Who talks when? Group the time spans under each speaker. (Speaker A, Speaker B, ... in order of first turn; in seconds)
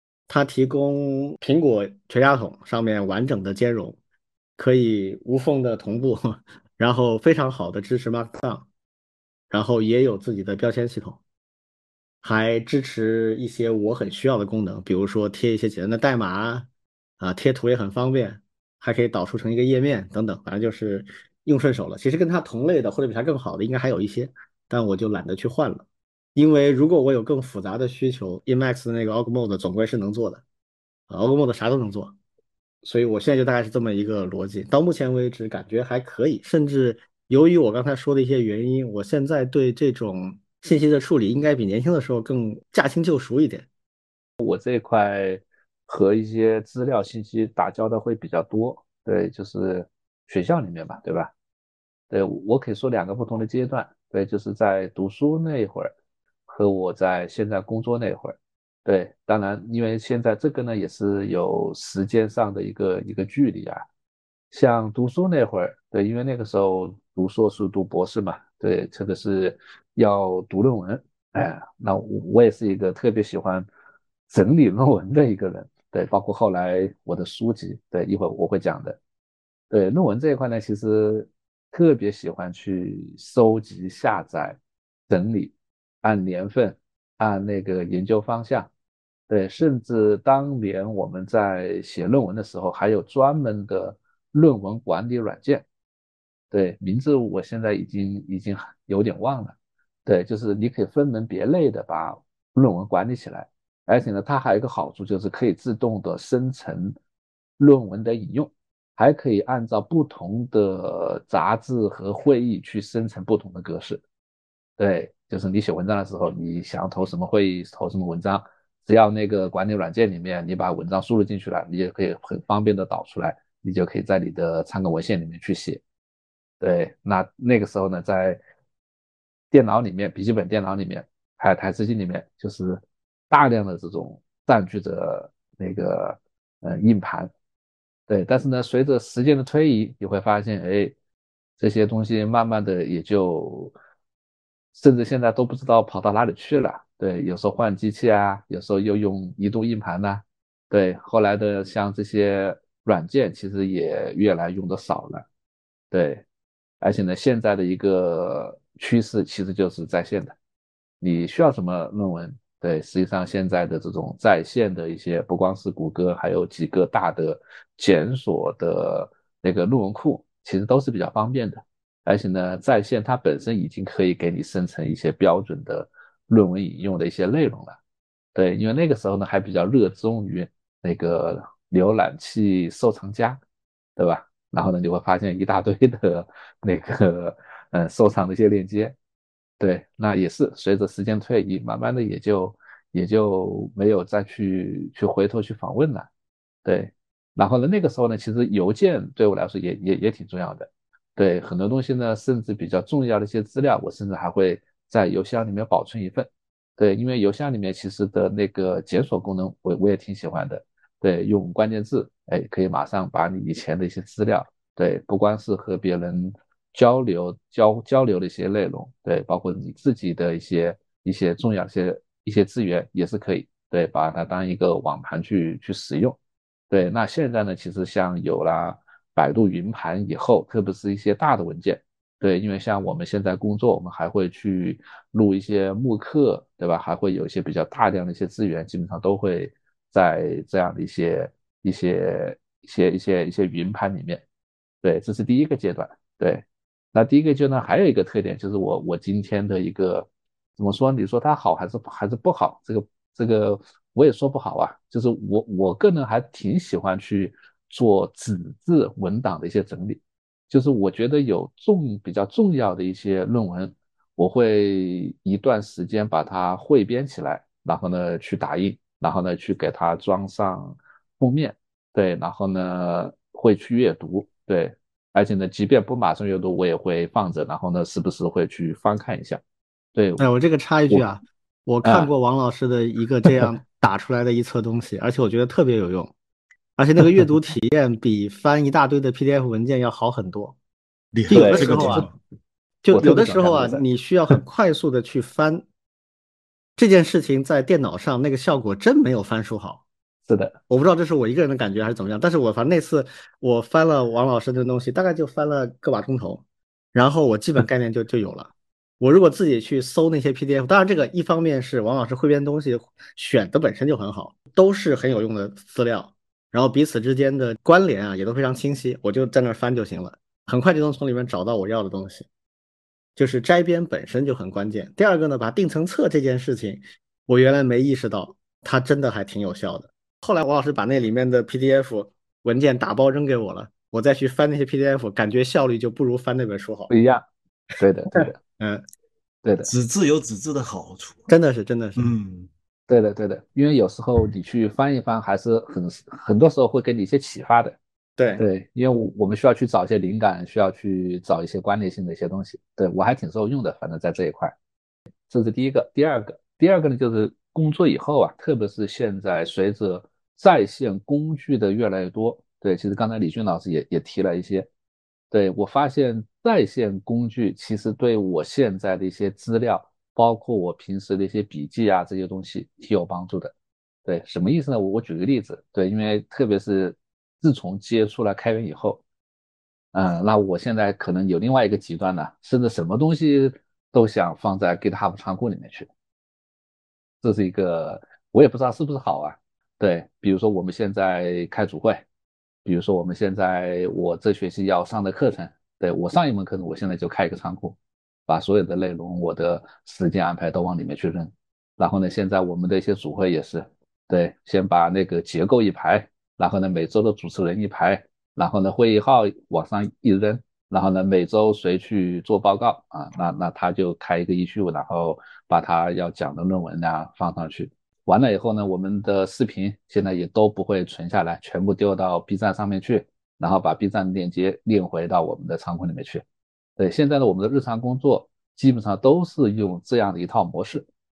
Speaker A: 0.3-4.0, 4.6-8.7, 9.5-11.2, 12.2-16.7, 17.2-30.4, 31.1-32.1, 32.8-43.7, 280.2-286.1, 286.8-290.6, 291.3-292.1, 292.9-295.6, 296.8-299.8, 300.7-322.3, 323.2-336.9, 338.2-338.8, 341.3-342.1, 348.2-348.4
Speaker B: 44.4-51.3, 52.1-55.9, 56.5-63.8, 64.5-73.7, 74.3-79.0, 79.7-88.7, 89.3-95.7, 96.5-99.5, 100.1-107.0, 107.6-114.0, 114.8-125.8, 126.6-128.4, 129.5-137.3, 138.1-140.9, 141.6-143.7, 144.7-155.3, 155.9-156.2, 156.8-160.3, 161.0-177.8, 178.3-183.4, 184.0-188.9, 189.6-196.1, 196.7-226.2, 226.7-244.2, 244.8-250.1, 250.6-260.0, 260.5-279.4, 279.9-280.2, 281.8-282.1, 291.3-292.1, 292.9-293.8, 300.3-300.6, 336.9-337.2, 337.8-338.4, 339.4-339.7, 342.9-347.8, 348.4-354.5, 355.3-364.7, 365.3-373.5, 374.1-379.0, 379.9-385.9, 387.2-392.1, 392.6-397.8, 398.3-426.2, 426.8-430.9
Speaker C: 291.1-292.2, 339.7-341.3, 342.0-342.5